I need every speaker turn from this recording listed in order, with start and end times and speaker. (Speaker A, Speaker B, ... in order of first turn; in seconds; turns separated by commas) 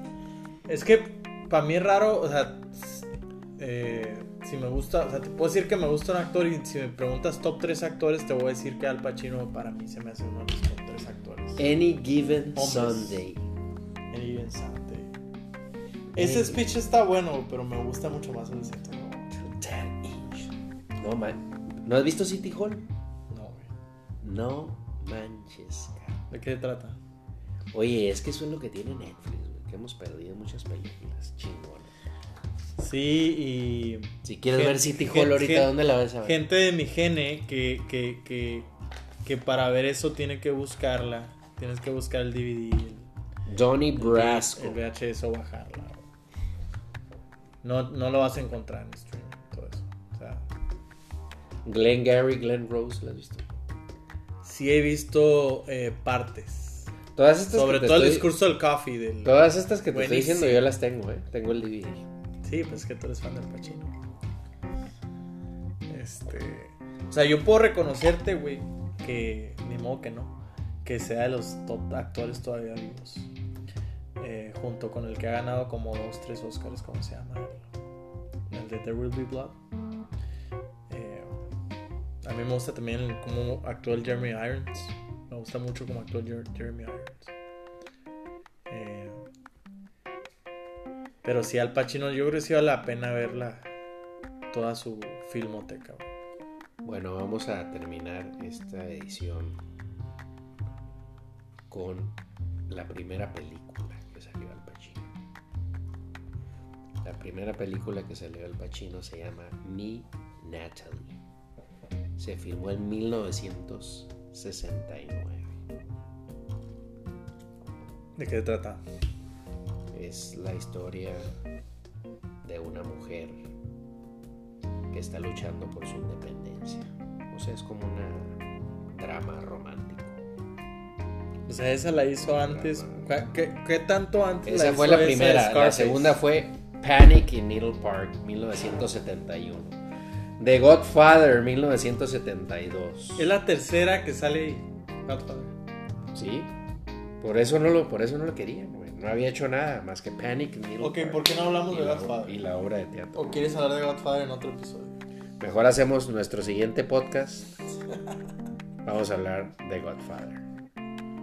Speaker A: 0.7-3.0, Speaker A: 3.6-11.6, Speaker B: 11.6-13.5, Speaker A: 12.6-13.2, Speaker A: 14.1-15.2, Speaker A: 16.1-19.3, Speaker B: 16.1-16.6, Speaker B: 19.3-22.9, Speaker A: 23.3-23.7, Speaker B: 24.2-26.2, Speaker A: 26.3-27.0, Speaker B: 27.7-31.9, Speaker A: 32.8-38.7, Speaker B: 34.2-36.4, Speaker A: 39.2-43.1, Speaker B: 43.5-44.8, Speaker A: 43.9-46.0, Speaker A: 47.6-50.5, Speaker B: 51.6-53.5, Speaker A: 54.4-56.9, Speaker B: 57.1-58.3, Speaker A: 57.5-60.6, Speaker B: 59.2-62.1, Speaker A: 62.4-63.9, Speaker A: 65.9-73.3, Speaker A: 74.2-77.7, Speaker A: 78.5-79.6, Speaker A: 80.9-81.3, Speaker A: 82.2-87.3, Speaker A: 88.7-89.2, Speaker A: 91.2-93.7, Speaker A: 94.5-96.0, Speaker B: 96.8-99.6, Speaker B: 101.7-102.2, Speaker B: 102.7-105.0, Speaker B: 107.0-111.2, Speaker B: 112.2-115.5, Speaker A: 118.2-118.8, Speaker B: 119.9-121.3, Speaker B: 122.4-123.5, Speaker B: 124.9-128.4, Speaker B: 128.9-130.2, Speaker A: 131.5-136.2, Speaker B: 132.3-133.1, Speaker B: 134.4-139.8, Speaker B: 140.4-143.3, Speaker A: 143.2-145.5, Speaker B: 146.1-146.5, Speaker B: 147.2-153.4, Speaker A: 150.8-152.4, Speaker A: 153.1-155.0, Speaker B: 155.4-157.5, Speaker B: 158.8-160.4